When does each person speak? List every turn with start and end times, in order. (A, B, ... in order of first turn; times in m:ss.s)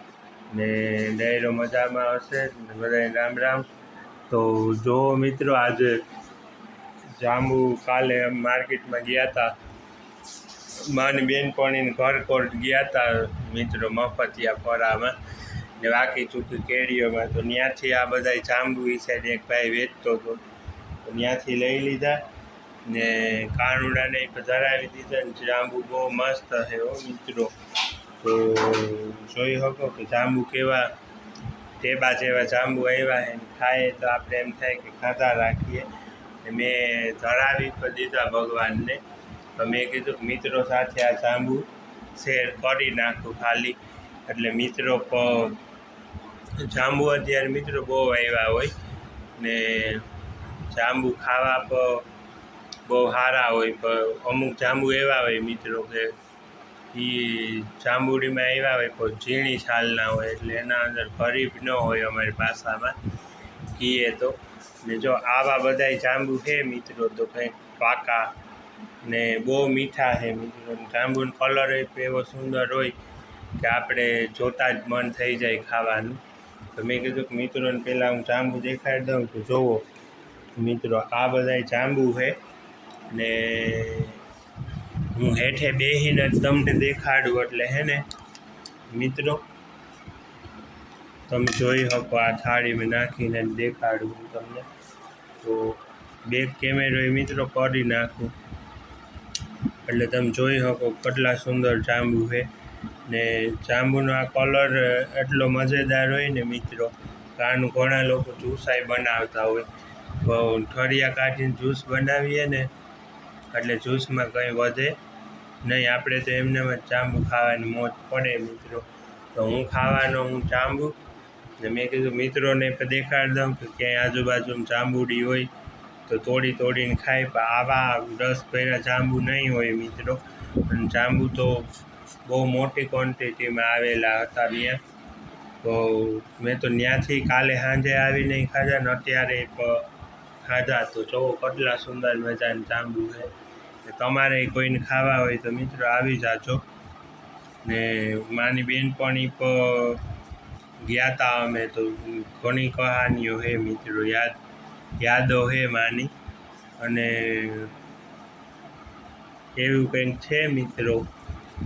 0:00.5-0:03.7 A
0:04.3-0:06.0 A
0:07.2-0:09.6 A
0:10.8-0:15.2 A
0:15.8-0:20.4 A
0:21.0-0:22.3 A
0:22.8-0:27.5 A
0:28.2-0:30.9 A
0:31.8-0:35.9 A
0:36.4-0:39.0 A
0:39.6-0:45.6 A
0:46.6-0:48.7 A
0:49.4-0:50.1 A
0:50.7-0:52.1 A
0:52.8-0:56.1 A
0:56.9-1:03.0 A
1:03.7-1:08.3 A
1:09.0-1:12.9 A
1:13.6-1:16.2 A
1:16.7-1:19.8 A
1:20.6-1:22.4 A
1:23.1-1:24.2 A
1:25.1-1:28.1 A
1:28.9-1:29.4 A
1:31.3-1:34.7 A
1:35.4-1:38.3 A
1:39.8-1:42.5 A
1:43.1-1:52.7 A
1:53.5-1:55.0 A
1:55.6-2:01.0 A
2:01.6-2:05.5 A
2:06.1-2:11.7 A
2:12.2-2:14.8 A
2:15.6-2:19.9 A
2:20.4-2:23.3 A
2:23.8-2:26.6 A
2:27.6-2:30.0 A
2:30.8-2:34.4 A
2:35.0-2:36.1 A
2:36.8-2:37.7 A
2:39.6-2:41.1 A